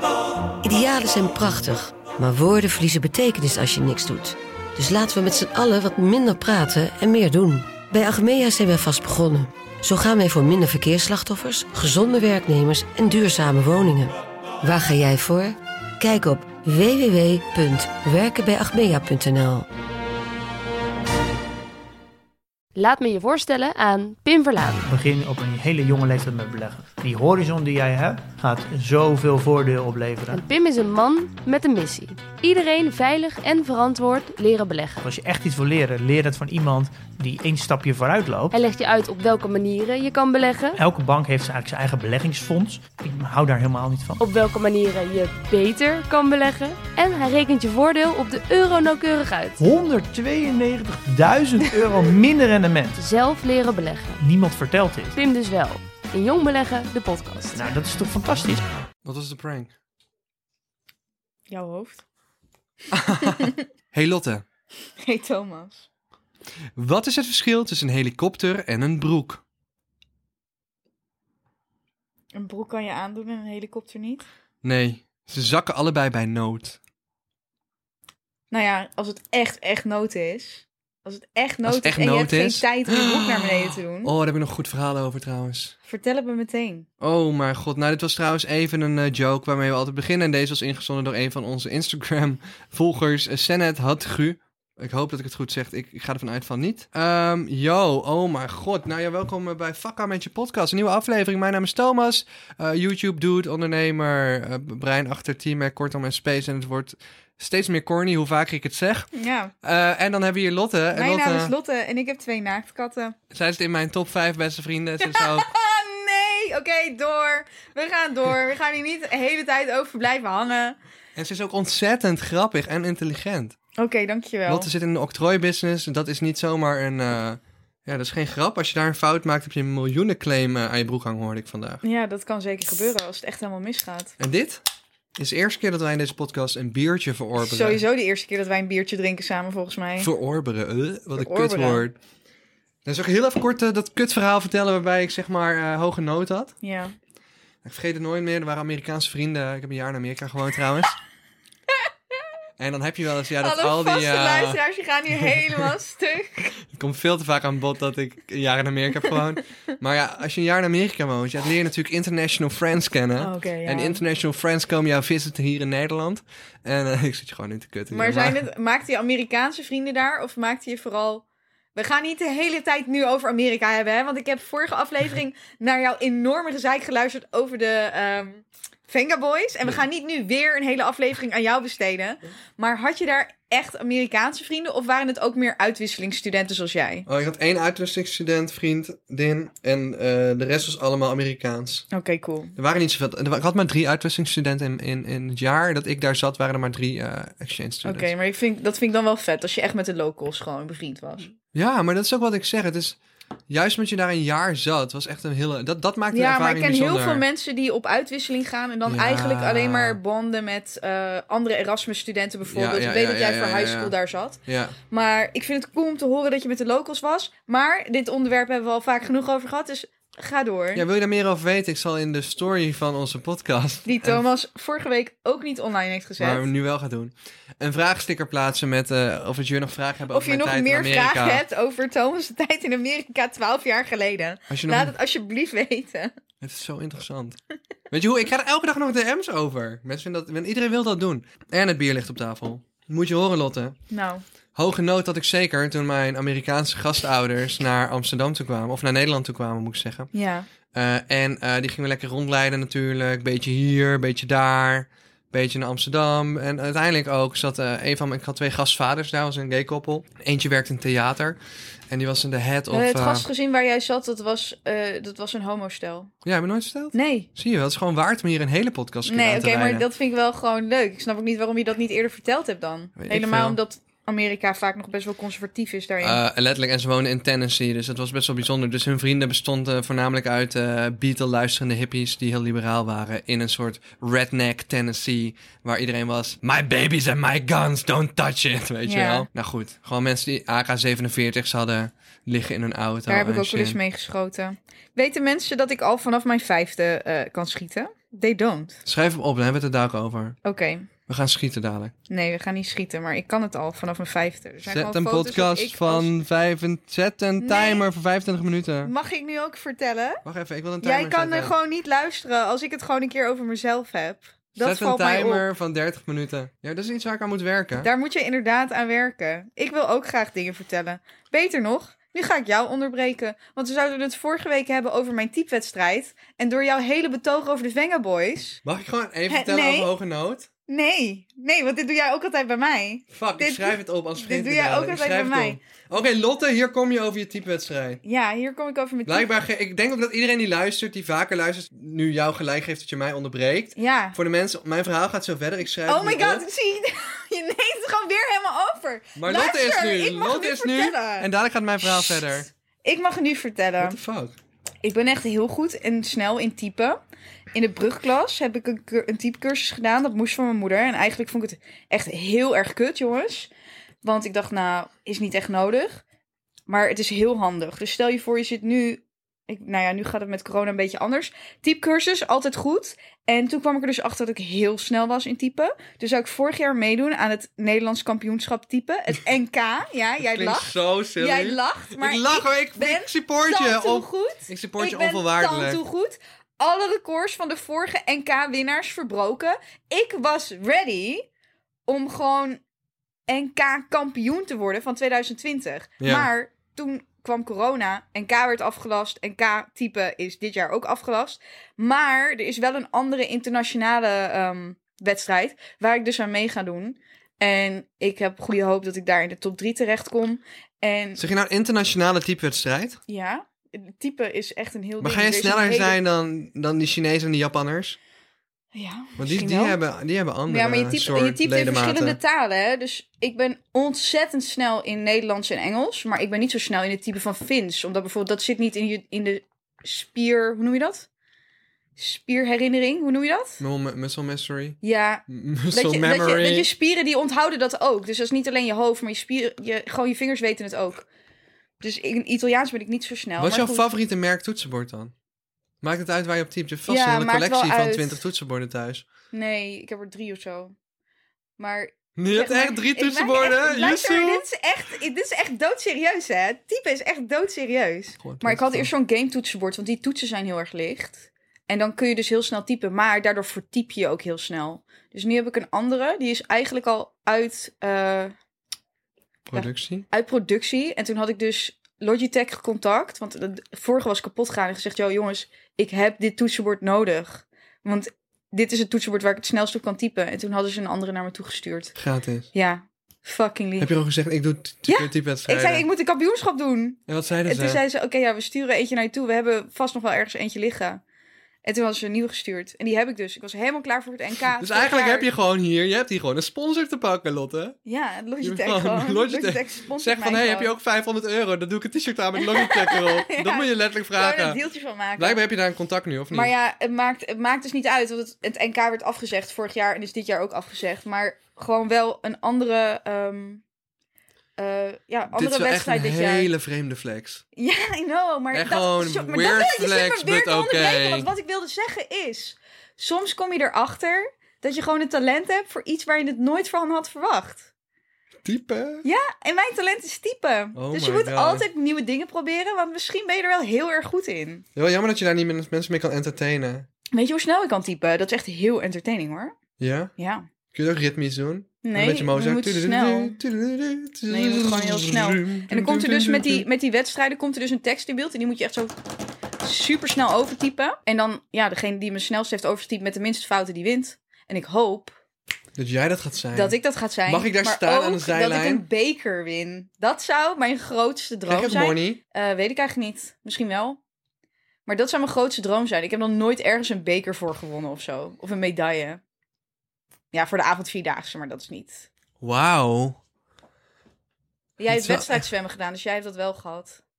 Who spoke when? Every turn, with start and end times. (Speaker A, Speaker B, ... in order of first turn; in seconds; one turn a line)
Speaker A: 0.6-19.6
Speaker B: 22.7-24.8
Speaker C: 24.8-30.5
Speaker B: 30.3-35.0
Speaker C: 35.0-38.5
Speaker B: 38.5-40.8
Speaker C: 40.8-44.2
Speaker B: 44.2-49.6
Speaker C: 49.6-53.0
Speaker B: 53.0-54.2
Speaker C: 54.2-55.2
Speaker B: 55.1-57.8
Speaker C: 57.5-58.6
Speaker D: 59.0-59.7
Speaker E: 61.5-62.0
Speaker D: 62.9-64.4
Speaker E: 63.1-63.6
Speaker E: 65.0-65.8
Speaker D: 66.8-69.4
Speaker E: 72.3-74.2
Speaker D: 74.6-76.8
Speaker E: 78.5-84.1
Speaker D: 81.6-85.7
Speaker E: 85.9-86.9
Speaker D: 87.0-109.1
Speaker E: 109.1-109.5
Speaker D: 109.6-111.5
Speaker E: 110.9-113.2
Speaker D: 113.3-115.5
Speaker E: 115.0-120.8
Speaker D: 121.2-123.6
Speaker E: 123.8-124.7
Speaker D: 124.5-131.8
Speaker E: 131.8-134.1
Speaker D: 134.2-134.6
Speaker D: 135.2-137.8
Speaker E: 137.4-140.1
Speaker D: 140.0-142.0
Speaker E: 141.2-141.8
Speaker D: 142.8-146.5
Speaker E: 146.6-146.9
Speaker D: 147.6-150.9
Speaker D: 152.6-154.6
Speaker E: 153.4-156.6
Speaker D: 155.1-155.7
Speaker D: 156.7-168.4
Speaker E: 163.2-164.0
Speaker E: 167.9-187.1
Speaker D: 187.1-191.9
Speaker E: 191.9-192.5
Speaker D: 192.6-198.1
Speaker E: 197.8-201.3
Speaker D: 201.5-203.0
Speaker D: 203.5-207.2
Speaker E: 206.1-220.8
Speaker D: 208.8-210.0
Speaker D: 212.5-213.9
Speaker D: 214.4-214.8
Speaker D: 220.7-224.2
Speaker E: 223.8-226.5
Speaker D: 226.2-231.4
Speaker E: 230.1-236.1
Speaker D: 234.5-234.9
Speaker D: 236.4-237.4
Speaker D: 237.9-243.8
Speaker E: 243.9-244.2
Speaker D: 244.5-250.1
Speaker E: 250.1-250.5
Speaker D: 250.7-263.3
Speaker E: 262.7-266.1
Speaker D: 266.2-269.9
Speaker E: 266.9-267.3
Speaker E: 269.1-276.2
Speaker D: 273.0-273.6
Speaker D: 276.0-293.8
Speaker E: 288.8-289.3
Speaker E: 293.1-298.8
Speaker D: 298.8-300.4
Speaker E: 300.4-300.9
Speaker D: 301.1-301.9
Speaker E: 302.1-306.1
Speaker D: 304.6-308.9
Speaker E: 307.4-307.9
Speaker E: 308.8-310.2
Speaker D: 310.2-311.5
Speaker E: 310.8-315.4
Speaker D: 314.6-317.9
Speaker E: 317.8-328.6
Speaker D: 328.6-330.5
Speaker E: 329.3-329.9
Speaker E: 330.7-335.6
Speaker D: 333.1-338.0
Speaker E: 338.0-339.3
Speaker D: 339.1-346.4
Speaker E: 343.8-344.2
Speaker E: 345.9-351.3
Speaker D: 349.1-352.5
Speaker E: 351.8-354.0
Speaker D: 353.8-354.4
Speaker E: 354.8-357.0
Speaker E: 357.5-363.5
Speaker E: 364.0-366.0
Speaker E: 366.7-391.2
Speaker D: 380.2-385.8
Speaker E: 391.9-392.6
Speaker E: 393.3-411.2
Speaker D: 396.0-396.3
Speaker D: 411.2-413.0
Speaker E: 413.1-416.0
Speaker D: 415.0-418.0
Speaker E: 418.7-419.8
Speaker D: 419.2-422.2
Speaker E: 420.5-431.1
Speaker E: 432.0-433.6
Speaker D: 433.6-436.7
Speaker E: 434.8-441.1
Speaker E: 441.8-443.9
Speaker D: 443.4-445.1
Speaker D: 445.8-449.1
Speaker E: 446.9-448.2
Speaker E: 449.3-450.7
Speaker E: 451.6-468.3
Speaker D: 452.2-454.4
Speaker D: 458.2-458.9
Speaker D: 469.4-470.1
Speaker E: 469.5-481.9
Speaker D: 482.0-482.5
Speaker E: 482.5-483.9
Speaker D: 483.8-485.9
Speaker E: 484.9-491.0
Speaker D: 487.1-487.8
Speaker E: 491.6-495.3
Speaker D: 494.6-497.8
Speaker E: 497.9-500.7
Speaker D: 498.4-504.6
Speaker E: 502.4-505.4
Speaker D: 505.2-506.5
Speaker E: 506.3-513.6
Speaker E: 514.6-516.5
Speaker D: 515.3-517.4
Speaker E: 517.5-527.7
Speaker D: 518.5-521.3
Speaker D: 528.4-529.0
Speaker E: 529.0-534.6
Speaker D: 530.7-531.6
Speaker D: 534.8-536.9
Speaker E: 537.1-539.5
Speaker D: 539.8-540.1
Speaker E: 540.2-540.5
Speaker D: 540.7-546.7
Speaker E: 541.8-543.4
Speaker E: 544.3-548.9
Speaker E: 549.6-555.1
Speaker D: 555.8-558.8
Speaker E: 556.5-564.0
Speaker D: 561.5-562.2
Speaker E: 564.9-569.2
Speaker E: 570.3-572.1
Speaker D: 572.4-573.2
Speaker E: 574.8-577.0
Speaker D: 574.9-575.4